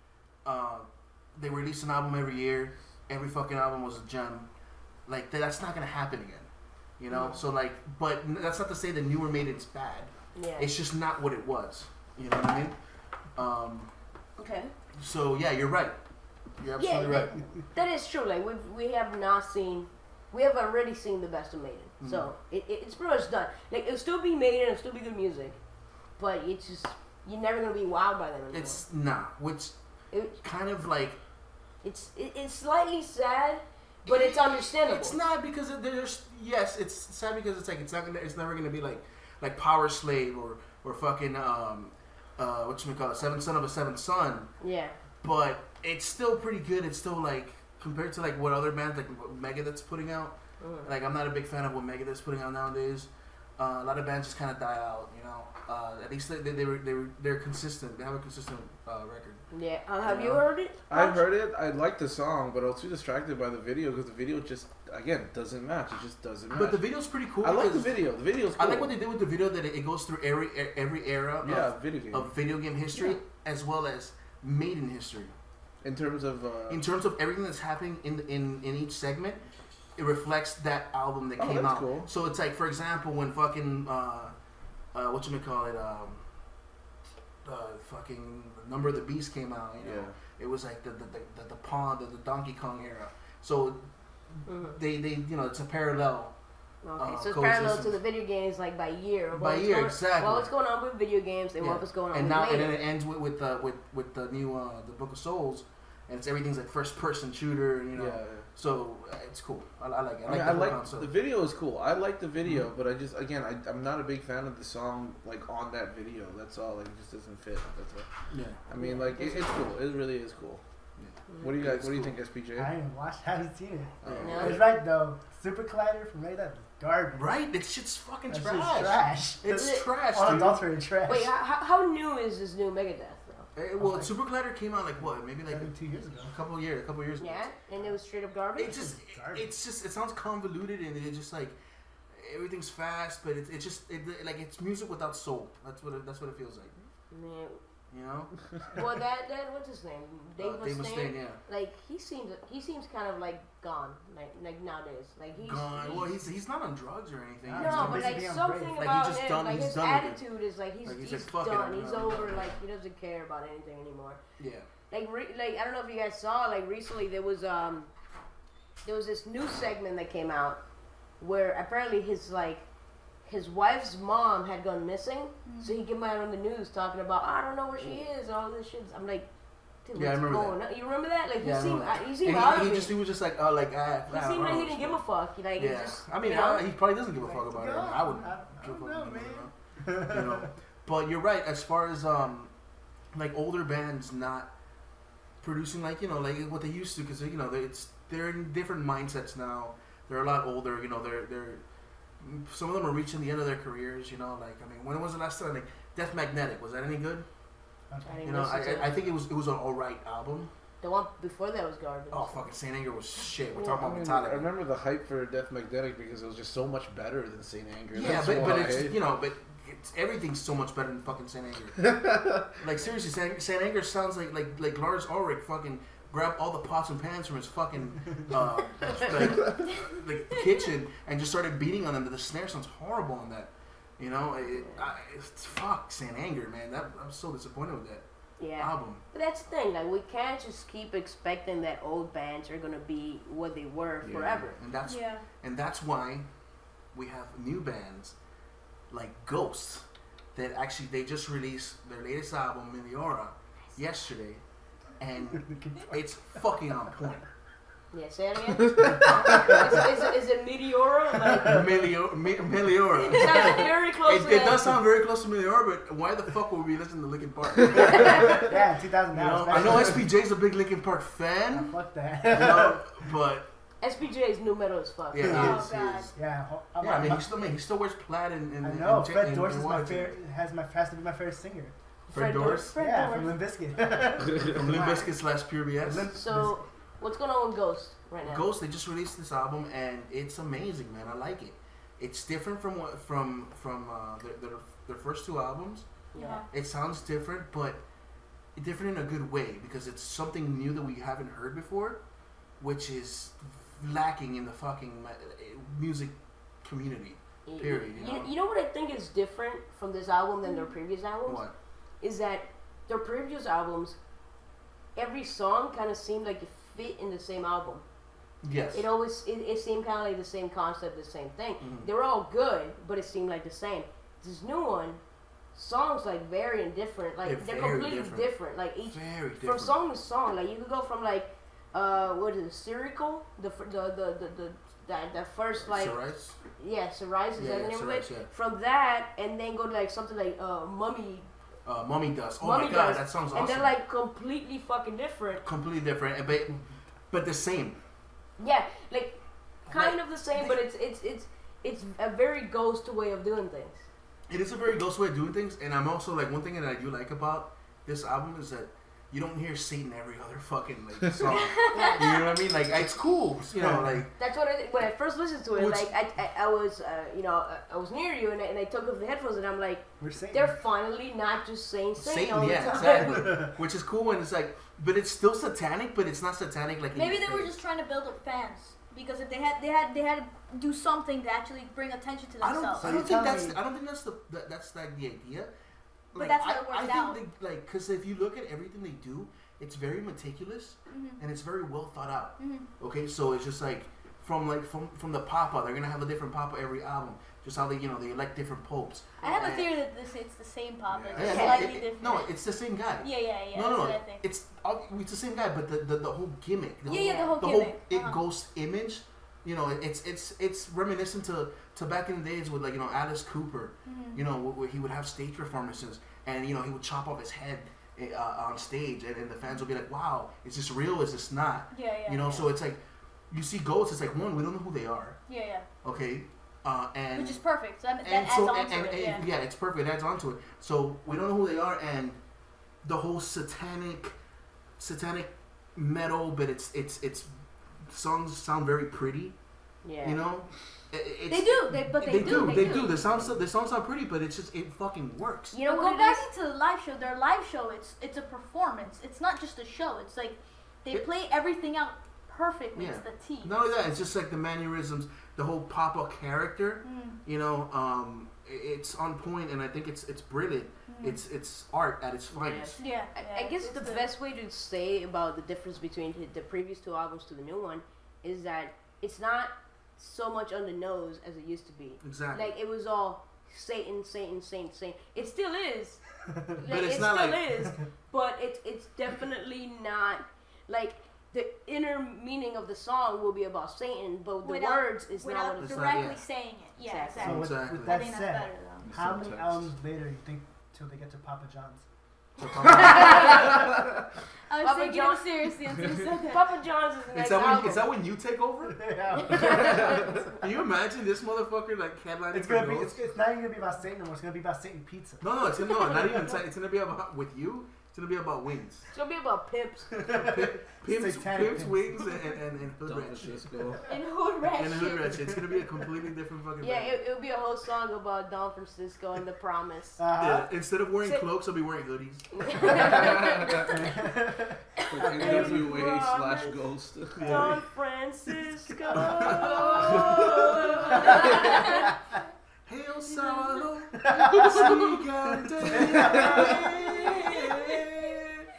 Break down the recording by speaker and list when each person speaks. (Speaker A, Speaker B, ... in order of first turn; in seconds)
Speaker A: 0.4-4.5, 5.0-12.8, 13.3-13.9, 15.0-16.0, 16.6-17.4, 22.0-22.3, 28.5-29.8, 30.4-31.2, 34.0-44.5, 45.2-59.4, 60.0-60.4, 66.5-75.3, 76.7-79.4, 80.0-84.3, 84.9-86.2, 87.4-96.3, 97.0-98.0, 99.3-100.5, 101.6-111.1, 112.4-112.7, 118.3-118.6, 121.0-122.2, 124.0-124.6, 127.1-130.7, 133.5-135.7, 136.3-137.5, 138.6-141.6, 142.1-146.8, 147.9-148.3, 150.4-151.4, 155.4-158.2, 158.8-160.2, 160.8-162.6, 164.4-164.7, 179.9-180.6, 181.4-185.0, 185.6-192.5, 193.1-194.5, 195.4-201.6, 202.2-207.2, 208.2-210.5, 212.1-214.5, 217.9-221.9, 222.6-238.0, 238.6-239.0, 244.6-246.3, 246.9-248.1, 248.9-254.4, 255.0-257.3, 259.0-259.8, 261.4-268.4, 269.1-273.5, 275.1-276.1, 276.8-280.1, 282.1-282.8, 284.4-286.1, 288.2-295.9, 296.5-297.8, 298.6-302.0, 302.6-308.3, 311.2-311.5, 318.4-318.9, 321.6-321.9, 327.2-328.3, 328.8-329.8, 335.6-336.4, 337.3-338.3, 341.6-343.7, 345.4-346.6, 347.1-347.8, 349.7-350.6, 354.3-364.1, 365.5-365.9, 372.0-377.6, 382.4-385.5, 386.1-399.7, 401.1-425.2, 425.8-427.4, 428.0-432.2, 432.8-434.1, 434.8-437.3, 437.9-439.3, 440.0-445.6, 452.7-462.8, 472.0-472.6, 476.6-477.5, 485.6-486.2, 487.2-488.2, 492.4-493.5, 497.1-498.9, 499.4-499.8, 500.4-503.0, 505.2-508.9, 510.1-513.4, 514.5-517.0, 520.1-522.8, 527.2-527.5, 529.1-530.2, 532.6-538.2
Speaker B: 7.1-7.4, 10.3-10.8, 14.4-14.7, 16.8-25.6, 26.2-28.8, 30.1-30.4, 31.8-35.2, 44.6-45.0, 50.6-50.9, 59.5-61.2, 94.5-94.8, 96.8-102.8, 118.8-119.5, 124.2-124.7, 129.5-129.9, 131.0-133.5, 137.2-138.8, 147.1-147.6, 148.7-156.2, 157.6-164.2, 164.8-167.9, 168.8-170.6, 171.2-172.7, 173.2-179.3, 179.8-183.0, 184.1-186.7, 208.0-209.1, 210.8-212.5, 234.4-234.9, 238.4-244.6, 257.9-261.7, 263.0-264.8, 267.7-268.4, 273.8-275.6, 282.1-283.3, 286.1-288.5, 296.1-296.4, 307.4-311.5, 312.0-314.0, 314.9-317.8, 318.7-325.0, 325.5-341.3, 342.4-345.4, 348.4-353.9, 361.6-362.4, 364.2-373.4, 399.2-399.5, 401.2-401.7, 406.9-407.4, 439.8-440.2, 442.1-442.9, 445.5-446.2, 462.3-476.0, 476.6-486.0, 486.8-487.3, 492.7-493.6, 494.6-495.2, 496.1-497.8, 499.2-500.2, 508.9-509.9, 516.6-520.1, 521.0-521.3, 522.3-523.8, 524.8-526.6, 527.2-531.9, 534.5-535.0, 536.1-537.4
Speaker C: 60.9-66.9, 67.4-69.0, 71.4-72.3, 75.8-76.9, 81.4-82.1, 89.8-90.1, 107.9-108.5, 110.2-118.1, 118.7-120.6, 121.4-122.7, 124.0-124.6, 213.6-219.0, 221.8-222.4, 244.0-244.5, 400.9-401.4, 488.8-489.7, 512.8-513.8, 522.7-523.7, 524.9-527.5
Speaker D: 122.6-127.3, 128.3-131.3, 133.8-134.1, 135.0-136.3, 138.6-139.5, 157.4-158.8, 187.2-190.5, 207.9-208.4, 255.4-256.0, 268.1-270.1, 271.5-272.9, 276.1-277.3, 278.6-281.7, 282.7-285.1, 285.8-286.6, 363.6-364.0, 370.0-370.6, 372.6-373.6, 382.8-383.6, 487.2-491.8, 498.7-500.1, 502.3-505.2, 510.0-512.1, 520.0-520.5, 523.7-524.5, 528.9-529.1, 534.1-534.4, 535.6-536.5
Speaker E: 175.4-175.8, 244.8-245.2, 275.2-276.1, 296.1-296.5, 310.4-310.7, 361.3-362.1, 376.9-382.9, 386.1-387.2, 390.9-391.2, 392.4-392.7, 399.2-402.3, 403.0-404.2, 406.9-408.2, 413.9-414.2, 421.7-422.4, 425.3-425.6, 427.1-429.2, 441.3-443.0, 445.6-453.6, 456.8-457.2, 460.9-461.2, 462.8-464.1, 484.4-488.9, 492.9-493.3, 494.5-496.4, 513.9-515.2, 533.0-533.6